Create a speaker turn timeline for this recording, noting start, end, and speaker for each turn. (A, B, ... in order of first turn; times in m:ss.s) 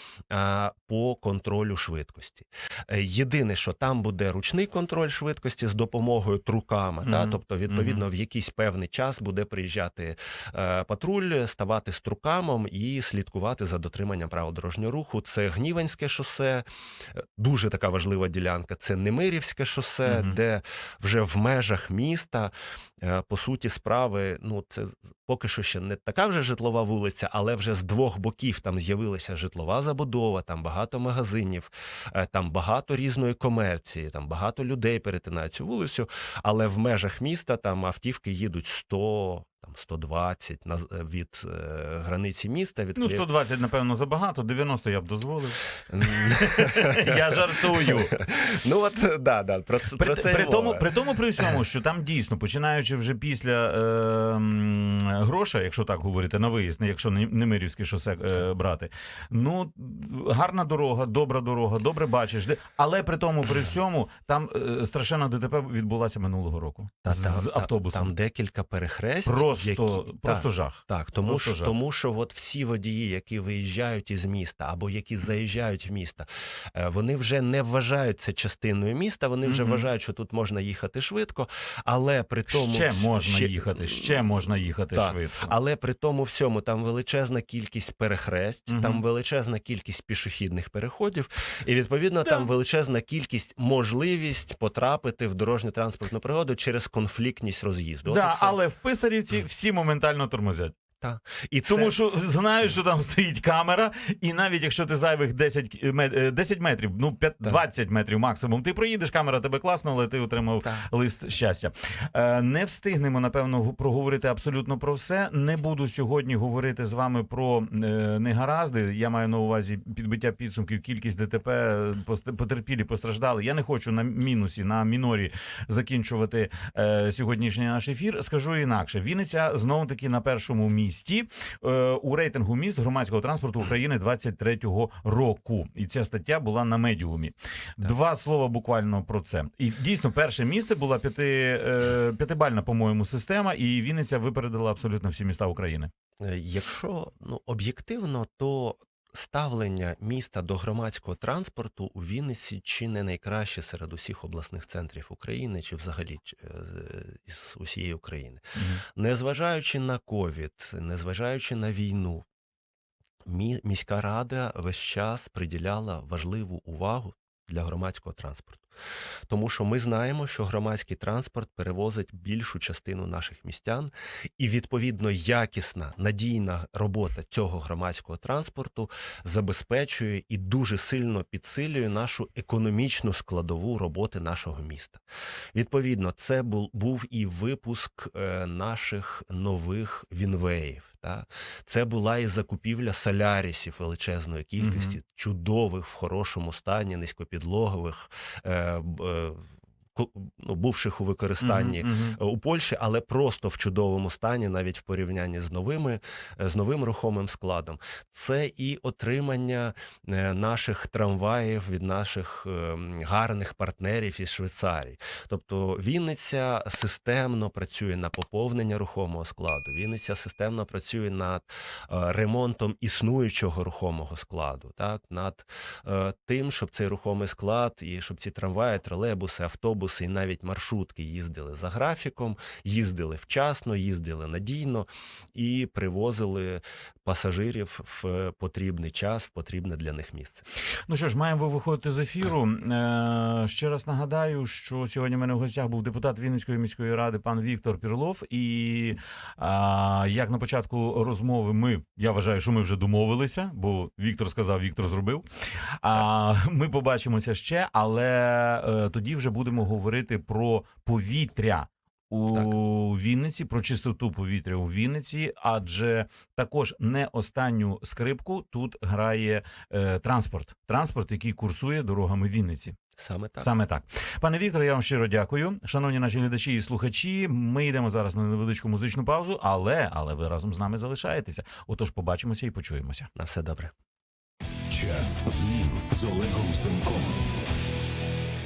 0:00.3-0:43.2 A
0:07.0-0:08.0 B
0:20.0-0:20.4 B
0:43.0-0:48.1 B
0:45.9-0:50.9 A
0:50.0-1:08.1 B
1:07.0-1:24.2 A
1:09.3-1:11.7 B
1:19.4-1:19.9 B
1:22.5-1:25.5 B
1:24.9-1:38.6 A
1:28.7-1:29.0 B
1:38.1-1:40.8 B
1:41.0-1:42.0 A
1:41.7-2:25.9 B
2:26.2-2:42.3 A
2:38.6-2:38.8 B
2:43.2-2:48.7 A
2:49.3-3:05.0 A
3:05.5-4:00.4 A
3:14.6-3:15.0 B
3:21.4-3:22.2 B
4:00.9-4:15.3 B
4:15.8-4:32.8 B
4:33.0-4:33.5 A
4:33.4-4:43.1 B
4:43.2-4:43.7 A
4:44.7-4:47.2 C